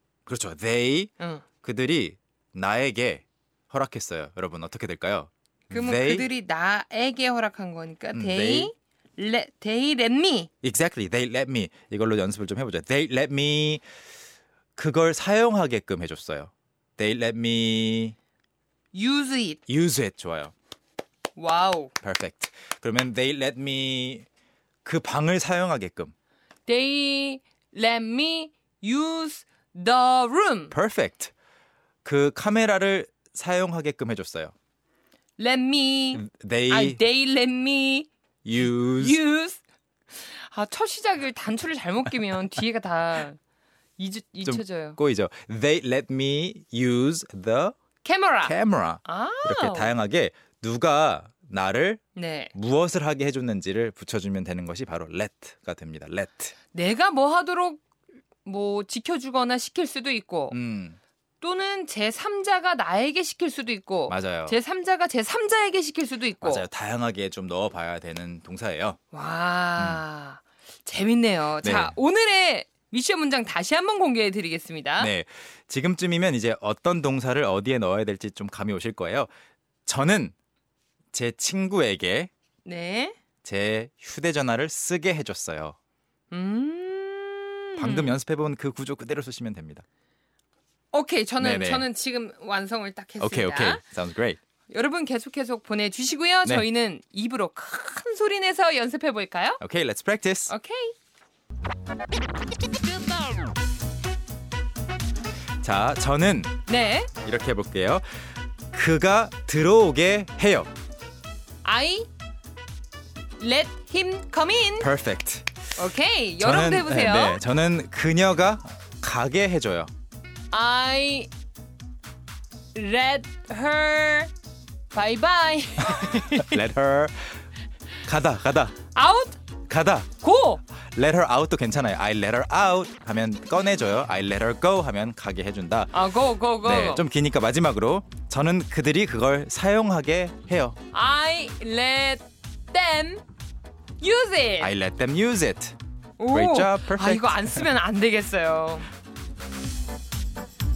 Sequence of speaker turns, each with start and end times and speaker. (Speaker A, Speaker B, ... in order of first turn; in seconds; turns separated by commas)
Speaker A: 0.3-6.3, Speaker B: 1.2-1.4, Speaker B: 5.7-10.5, Speaker A: 8.1-8.7, Speaker A: 10.6-13.8, Speaker A: 14.8-18.1, Speaker B: 18.9-19.6, Speaker A: 19.7-20.5, Speaker B: 21.4-21.9, Speaker A: 22.0-24.2, Speaker A: 24.8-26.1, Speaker B: 26.6-30.7, Speaker A: 30.7-31.3, Speaker A: 32.0-34.5, Speaker B: 35.4-43.4, Speaker A: 36.1-37.0, Speaker A: 38.4-39.2, Speaker B: 44.0-45.0, Speaker A: 44.4-47.7, Speaker B: 48.0-49.9, Speaker A: 48.4-56.5, Speaker B: 52.1-52.5, Speaker B: 56.7-57.8, Speaker B: 58.4-60.6, Speaker A: 60.5-61.0, Speaker B: 61.4-66.7, Speaker A: 64.1-64.6, Speaker A: 66.4-69.0, Speaker B: 69.1-75.1, Speaker A: 69.8-70.0, Speaker A: 71.6-72.0, Speaker A: 75.0-79.3, Speaker A: 79.8-80.3, Speaker A: 81.1-82.3, Speaker B: 82.6-83.2, Speaker A: 83.4-85.8, Speaker B: 86.3-88.2, Speaker A: 87.8-89.8, Speaker B: 90.9-93.8, Speaker A: 91.4-91.9, Speaker A: 93.2-94.4, Speaker B: 94.7-99.6, Speaker A: 99.6-100.5, Speaker B: 100.5-100.9, Speaker A: 105.6-106.5, Speaker B: 106.7-107.1, Speaker A: 107.1-108.0, Speaker A: 108.7-110.7, Speaker B: 111.6-112.1, Speaker B: 113.4-114.9, Speaker A: 114.8-119.9, Speaker B: 115.8-117.4, Speaker B: 120.5-121.3, Speaker B: 122.7-124.3, Speaker B: 124.9-126.6, Speaker A: 125.8-127.5, Speaker A: 128.0-128.8, Speaker B: 128.9-129.4, Speaker A: 129.7-130.1, Speaker B: 130.2-130.6, Speaker A: 130.8-136.1, Speaker B: 135.9-137.0, Speaker A: 136.6-140.8, Speaker B: 140.9-143.2, Speaker B: 144.0-144.7, Speaker A: 144.6-147.7, Speaker B: 146.2-148.9